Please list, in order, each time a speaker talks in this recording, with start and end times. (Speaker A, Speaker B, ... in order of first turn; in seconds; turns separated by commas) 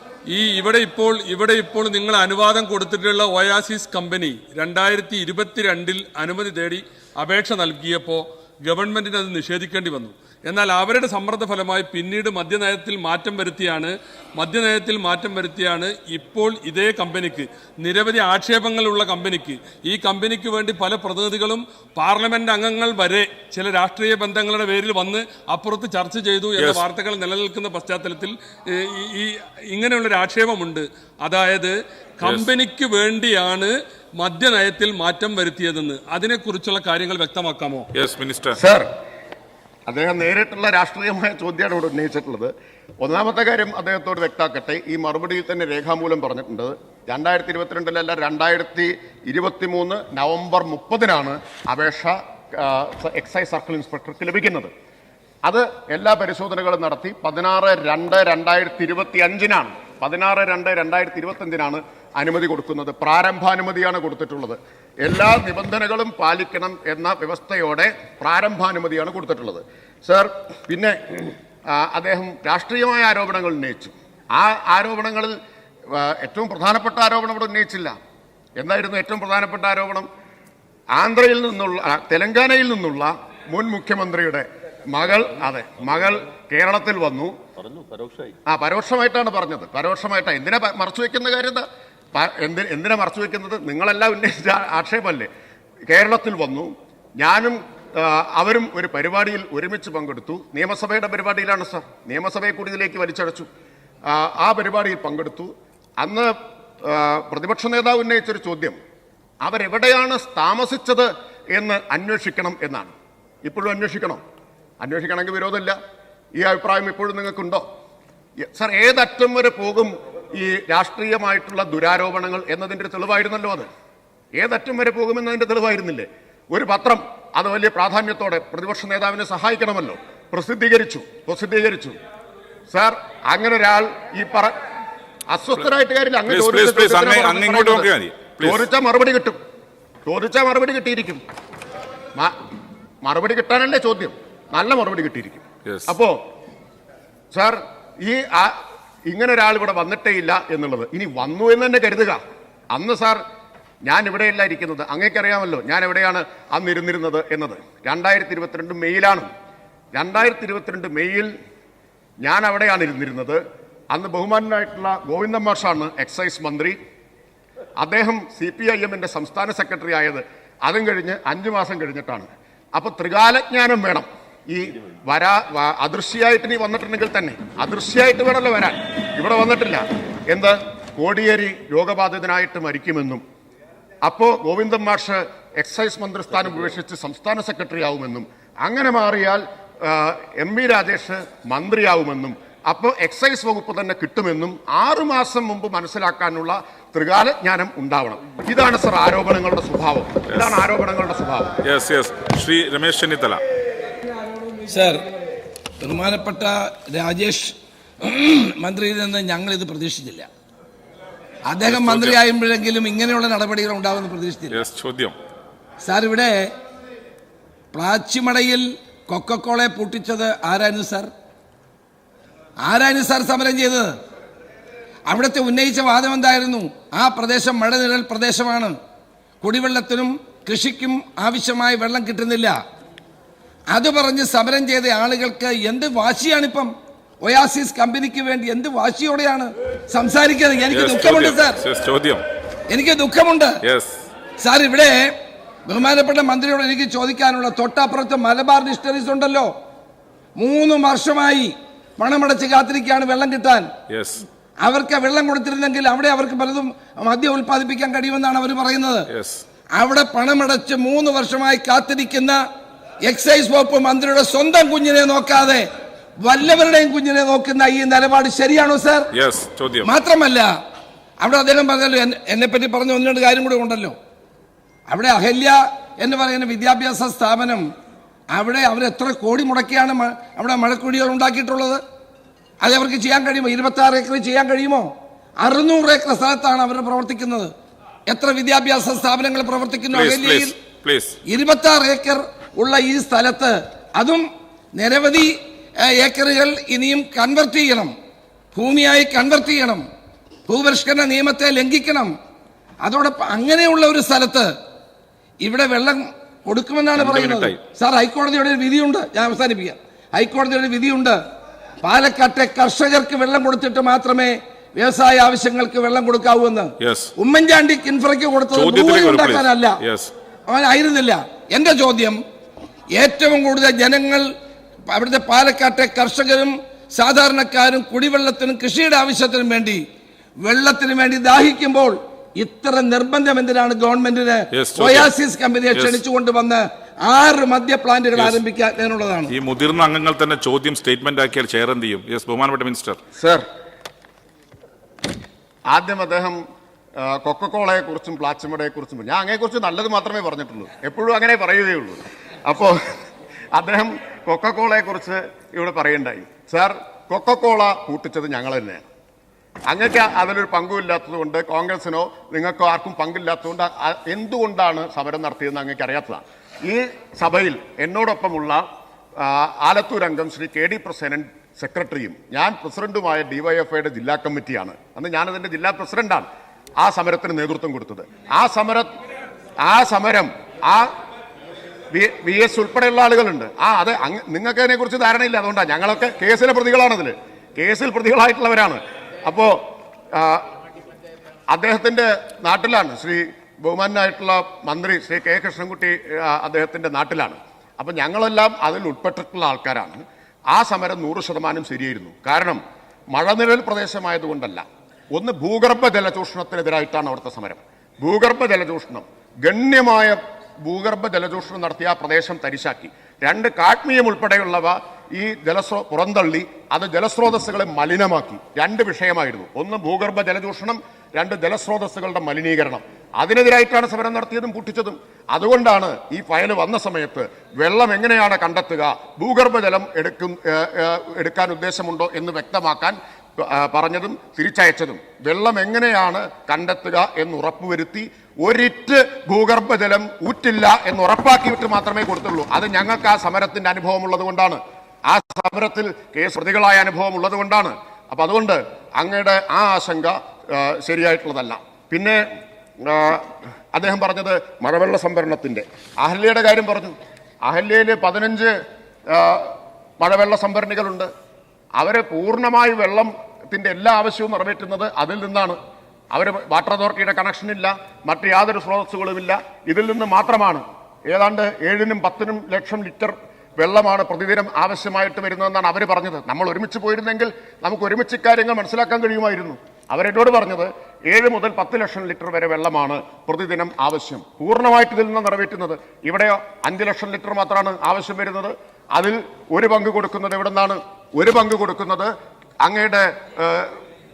Speaker A: 0.3-37.9, Speaker B: 26.6-26.9, Speaker B: 32.2-32.5, Speaker B: 37.9-38.6, Speaker C: 38.5-38.9, Speaker C: 39.9-54.7, Speaker C: 55.5-75.4, Speaker C: 75.9-78.0, Speaker C: 78.6-80.1, Speaker C: 81.0-87.3, Speaker C: 88.5-95.3, Speaker C: 95.9-103.5, Speaker C: 104.1-108.8, Speaker C: 109.4-114.2, Speaker C: 114.8-115.8, Speaker C: 116.4-117.6, Speaker C: 118.4-123.7, Speaker C: 124.3-132.0, Speaker C: 132.7-134.6, Speaker C: 135.3-137.9, Speaker B: 136.3-138.7, Speaker C: 138.4-139.4, Speaker C: 140.1-141.2, Speaker C: 143.0-146.2, Speaker B: 145.7-145.9, Speaker C: 147.3-152.2, Speaker C: 152.7-153.2, Speaker C: 153.9-159.3, Speaker C: 159.9-161.3, Speaker C: 162.2-166.8, Speaker C: 167.8-183.2, Speaker C: 184.0-201.5, Speaker B: 200.3-200.6, Speaker B: 201.6-203.4, Speaker D: 204.7-205.0, Speaker D: 205.8-210.3, Speaker D: 211.5-214.6, Speaker B: 211.6-212.2, Speaker B: 214.5-215.2, Speaker D: 215.8-216.4, Speaker D: 217.7-221.1, Speaker D: 222.7-223.9, Speaker D: 225.1-228.7, Speaker D: 229.4-232.6, Speaker D: 233.7-236.7, Speaker D: 237.2-241.6, Speaker B: 240.7-242.2, Speaker D: 242.7-243.6, Speaker B: 243.7-244.0, Speaker D: 244.4-245.1, Speaker D: 245.7-249.5, Speaker D: 250.4-253.7, Speaker B: 253.9-254.2, Speaker D: 254.7-259.1, Speaker B: 259.1-259.4, Speaker D: 259.8-262.4, Speaker D: 263.1-265.6, Speaker D: 266.2-269.1, Speaker B: 269.1-269.9, Speaker D: 269.8-270.5, Speaker D: 271.2-273.9, Speaker D: 274.9-277.6, Speaker D: 278.3-281.8, Speaker D: 282.6-284.9, Speaker D: 285.4-287.5, Speaker D: 288.1-290.6, Speaker B: 289.9-291.2, Speaker D: 291.3-294.2, Speaker D: 294.8-295.3, Speaker D: 295.9-297.9, Speaker D: 298.5-299.8, Speaker D: 300.5-302.1, Speaker D: 302.8-304.5, Speaker D: 305.5-311.2, Speaker B: 306.9-307.6, Speaker D: 311.8-319.8, Speaker B: 316.8-317.1, Speaker B: 318.5-320.1, Speaker D: 320.5-322.2, Speaker D: 323.0-324.2, Speaker D: 324.9-329.8, Speaker D: 330.4-339.3, Speaker B: 334.5-335.1, Speaker B: 335.7-336.0, Speaker B: 338.1-338.4, Speaker B: 339.3-343.0, Speaker C: 343.2-343.4, Speaker C: 345.7-346.4, Speaker C: 347.0-352.8, Speaker C: 353.5-358.9, Speaker C: 359.7-368.6, Speaker C: 369.2-378.9, Speaker C: 379.6-380.9, Speaker C: 381.9-389.6, Speaker C: 390.1-390.5, Speaker C: 391.5-402.6, Speaker C: 403.1-452.2, Speaker C: 452.8-456.9, Speaker C: 457.5-458.6, Speaker C: 459.1-461.1, Speaker C: 461.8-465.6, Speaker C: 466.1-492.1, Speaker C: 492.6-493.8